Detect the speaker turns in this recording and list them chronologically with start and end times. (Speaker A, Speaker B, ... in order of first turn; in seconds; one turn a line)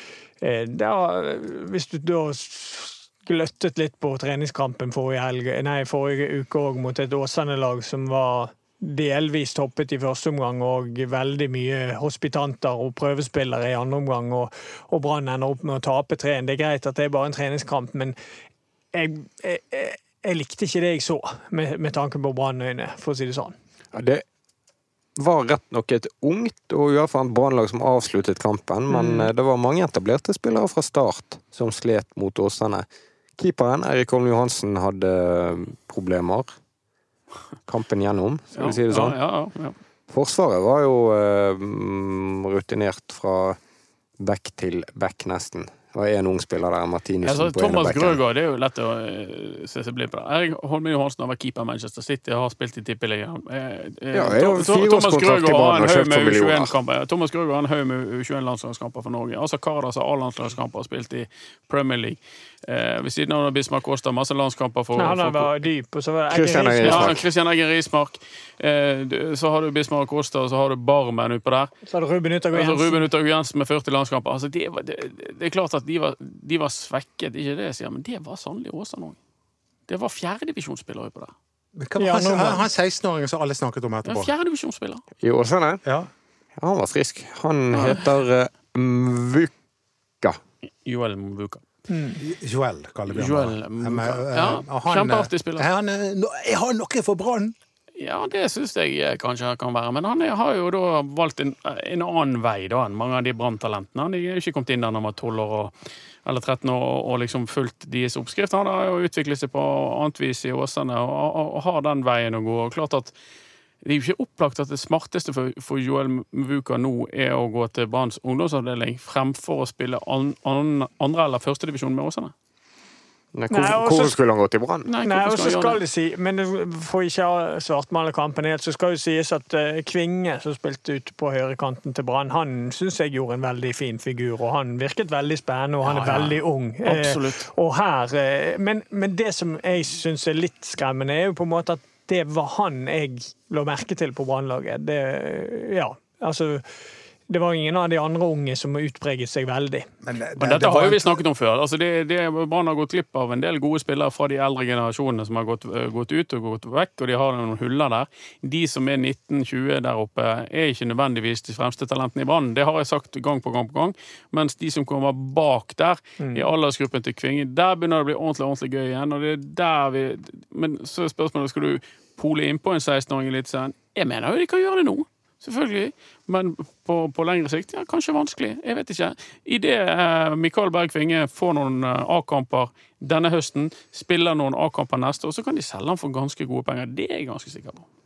Speaker A: 0.4-18.1
Speaker A: 18.9-23.5
Speaker B: 23.9-24.2
Speaker B: 25.2-32.8
Speaker A: 28.9-29.3
Speaker B: 33.4-36.5
Speaker B: 37.7-39.2
Speaker C: 38.5-39.8
Speaker B: 40.1-43.6
Speaker B: 44.2-48.2
Speaker C: 47.2-65.5
Speaker B: 54.1-56.7
Speaker A: 65.0-67.2
Speaker B: 66.3-67.2
Speaker C: 66.8-71.7
Speaker A: 71.8-73.1
Speaker C: 72.5-79.2
Speaker C: 79.9-81.3
Speaker D: 81.8-84.3
Speaker A: 82.0-82.7
Speaker C: 84.0-85.0
Speaker B: 85.2-85.8
Speaker D: 85.8-86.1
Speaker B: 86.6-89.5
Speaker C: 87.7-88.1
Speaker C: 90.8-91.6
Speaker A: 91.9-92.2
Speaker D: 92.2-97.5
Speaker C: 93.1-95.7
Speaker C: 98.0-105.7
Speaker C: 106.2-113.1
Speaker C: 113.8-122.3
Speaker B: 123.3-124.9
Speaker A: 123.5-124.2
Speaker C: 124.8-125.8
Speaker A: 125.0-146.6
Speaker C: 135.8-137.4
Speaker A: 147.3-149.9
Speaker D: 150.0-151.2
Speaker C: 150.4-187.8
Speaker A: 166.2-166.5